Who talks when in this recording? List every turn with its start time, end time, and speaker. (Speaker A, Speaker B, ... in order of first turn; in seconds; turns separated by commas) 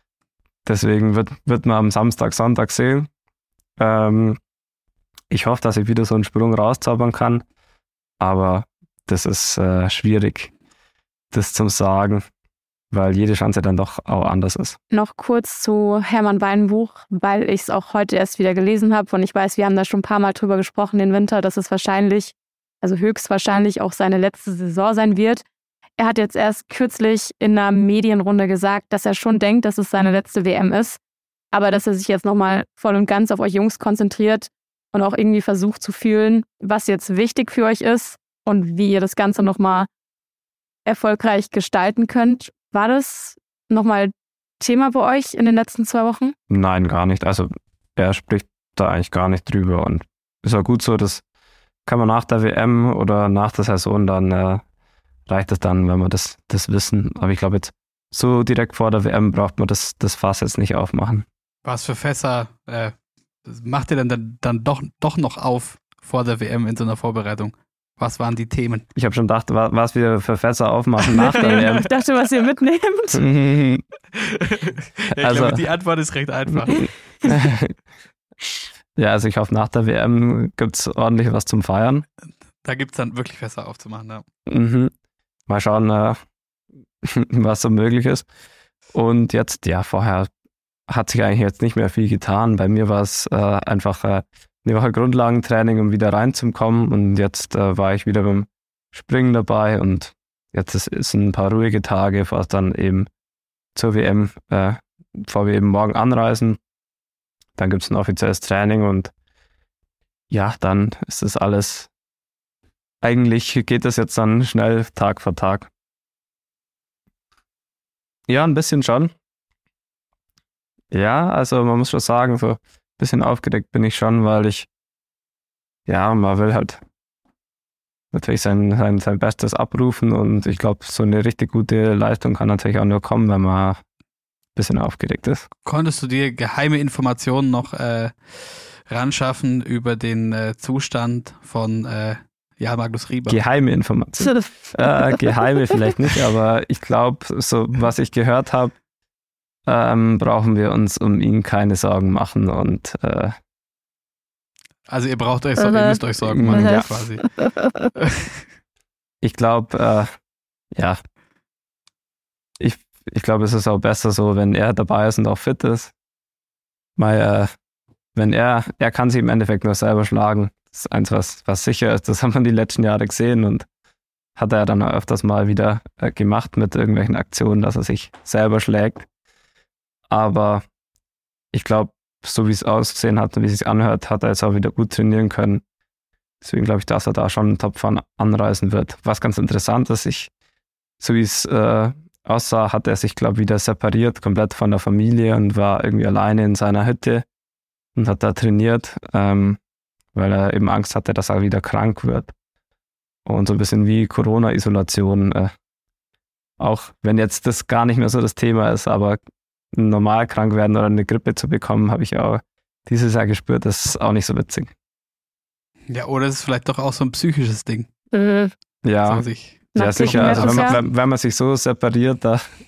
Speaker A: 0.6-3.1, Speaker A: 3.8-4.4, Speaker A: 5.3-7.4, Speaker A: 8.2-10.5, Speaker A: 11.3-12.2, Speaker A: 12.9-14.8, Speaker B: 14.9-25.4, Speaker B: 26.0-31.0, Speaker B: 31.5-39.9, Speaker B: 40.9-46.3, Speaker A: 46.5-51.2, Speaker A: 51.9-54.6, Speaker A: 55.3-61.2, Speaker C: 61.6-62.9, Speaker C: 63.4-68.8, Speaker A: 68.9-71.8, Speaker B: 71.1-73.2, Speaker A: 73.1-73.8, Speaker C: 74.1-76.9, Speaker A: 75.2-75.6, Speaker A: 76.8-77.7, Speaker A: 78.9-82.0, Speaker C: 82.6-84.2, Speaker A: 84.5-84.9, Speaker A: 85.5-86.2, Speaker A: 87.0-88.2, Speaker A: 88.9-90.3, Speaker A: 90.9-103.1, Speaker A: 103.7-106.6, Speaker A: 107.6-109.1, Speaker A: 110.3-111.9, Speaker A: 113.0-115.7, Speaker A: 118.3-119.1, Speaker A: 120.9-124.7, Speaker A: 125.9-126.8, Speaker A: 128.1-133.8, Speaker A: 134.6-135.4, Speaker C: 135.6-143.4, Speaker A: 143.3-148.7, Speaker B: 144.2-145.8, Speaker A: 149.7-153.4, Speaker C: 154.9-157.2, Speaker B: 155.6-156.8, Speaker A: 156.3-156.8, Speaker B: 157.4-157.7, Speaker C: 158.0-158.2, Speaker A: 159.2-160.1, Speaker A: 162.6-165.9, Speaker A: 167.0-167.5, Speaker A: 168.1-173.7, Speaker A: 174.3-179.1, Speaker A: 180.1-180.6, Speaker A: 181.5-185.6, Speaker A: 186.4-190.3, Speaker A: 191.0-197.2, Speaker A: 197.9-199.6, Speaker A: 200.1-202.3, Speaker A: 203.2-205.5, Speaker A: 206.6-209.2, Speaker A: 209.7-214.7, Speaker C: 215.9-217.9, Speaker B: 218.1-218.5, Speaker A: 218.8-222.4, Speaker C: 219.0-220.8, Speaker B: 219.7-220.8